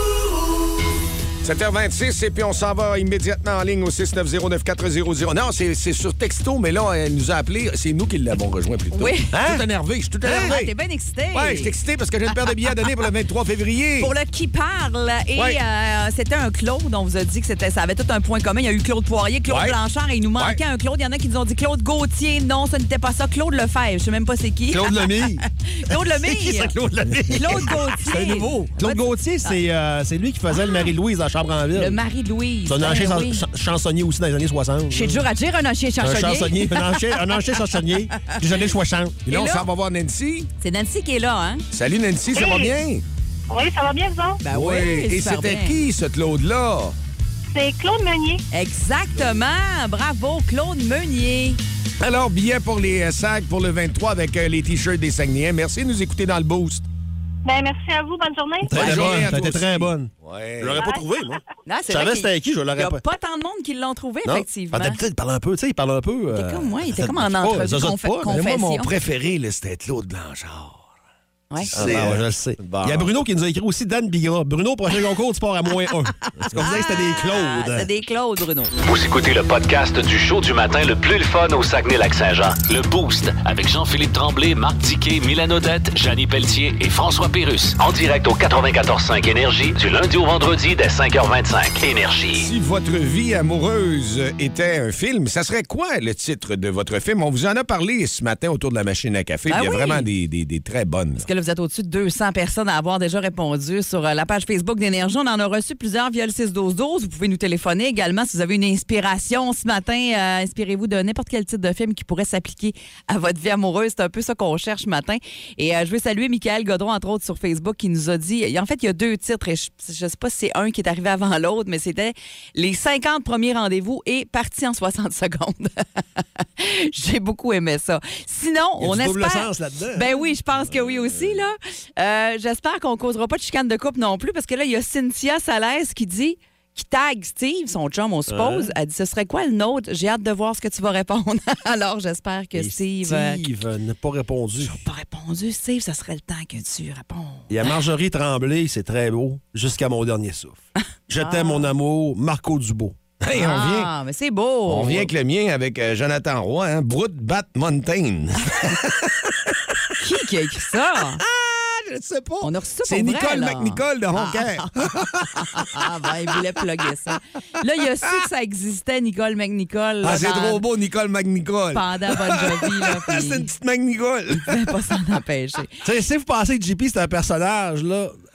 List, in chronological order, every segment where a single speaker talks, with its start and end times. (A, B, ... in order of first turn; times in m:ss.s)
0:01.4-0:10.7 A
0:08.9-0:09.4 B
0:09.3-0:09.6 C
0:10.2-0:11.7 B
0:11.3-0:14.1 A
0:14.0-0:26.8 B
0:19.5-0:19.8 A
0:20.4-0:20.6 A
0:24.7-0:32.0 C
0:27.3-0:29.6 B
0:31.8-0:33.4 B
0:32.6-0:35.3 C
0:34.9-0:38.4 B
0:36.0-0:39.2 C
0:39.3-0:39.6 B
0:39.3-0:40.5 A
0:40.6-0:41.6 B
0:41.7-0:43.0 A
0:42.3-0:42.8 D
0:43.5-0:44.4 D
0:44.4-0:45.8 B
0:44.5-0:47.0 A
0:47.5-0:48.4 D
0:48.5-0:51.6 B
0:52.0-0:56.8 A
0:57.4-0:58.8 D
0:58.6-1:03.0 C
0:58.7-1:00.8 A
1:01.6-1:05.0 B
1:04.2-1:08.3 C
1:06.3-1:08.9 B
1:08.3-1:10.9 A
1:11.6-1:13.1 A
1:11.7-1:17.9 C
1:16.6-1:18.7 B
1:18.8-1:32.5 E
1:32.4-1:41.3 A
1:39.5-1:40.1 B
1:41.1-2:23.4 B
2:08.8-2:10.1 C
2:18.3-2:18.7 C
2:22.6-2:24.8 C
2:24.6-2:27.5 B
2:27.5-2:33.0 C
2:31.2-2:31.7 B
2:33.2-2:33.9 A
2:33.4-2:35.1 B
2:34.7-2:39.4 A
2:40.0-2:41.2 B
2:41.2-2:45.7 A
2:42.4-2:44.7 B
2:45.3-2:50.6 B
2:50.0-2:54.7 A
2:51.7-2:53.5 B
2:54.4-2:55.8 B
2:55.8-2:58.2 C